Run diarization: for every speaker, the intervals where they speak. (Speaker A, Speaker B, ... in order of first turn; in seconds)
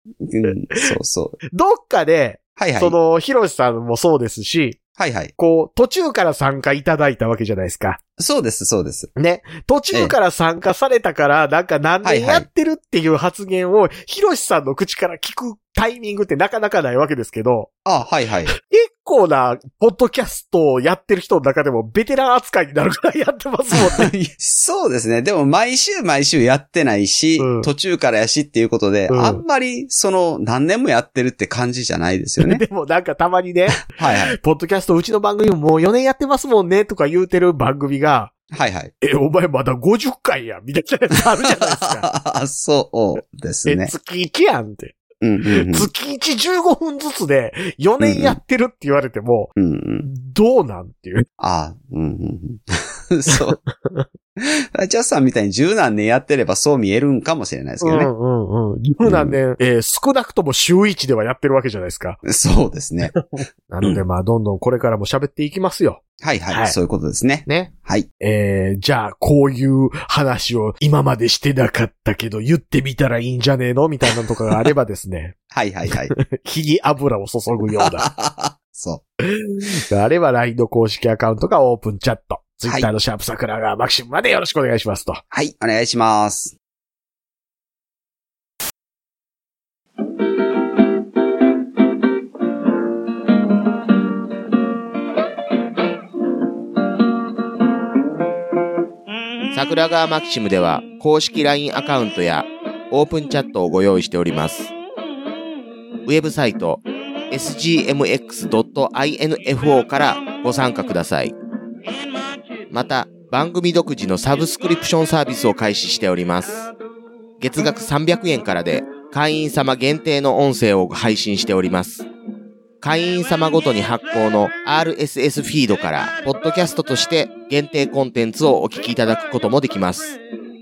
Speaker A: 0.2-1.4, 2.6-3.0, 5.0-5.3, 8.2-9.1, 12.0-12.5, 17.9-18.5, 23.8-32.6, 33.9-34.4, 38.5-38.9, 41.5-43.9, 45.2-45.9, 48.0-48.4, 49.6-50.1, 51.4-53.6, 54.4-58.1, 59.0-59.4, 62.2-63.2, 66.2-68.1, 75.5-76.1, 77.8-79.0, 82.6-82.9, 85.3-86.5
Speaker B: 0.4-0.9, 1.5-4.8, 5.4-8.0, 9.2-17.7, 18.5-24.1, 27.4-27.7, 29.1-29.4, 32.4-38.3, 39.0-42.1, 43.7-49.5, 50.0-51.3, 53.3-54.1, 57.8-62.2, 63.1-66.8, 67.5-75.4, 75.9-78.1, 79.3-85.2
Speaker C: 99.5-104.7, 106.1-111.4, 112.7-116.7, 117.4-122.1, 122.8-130.2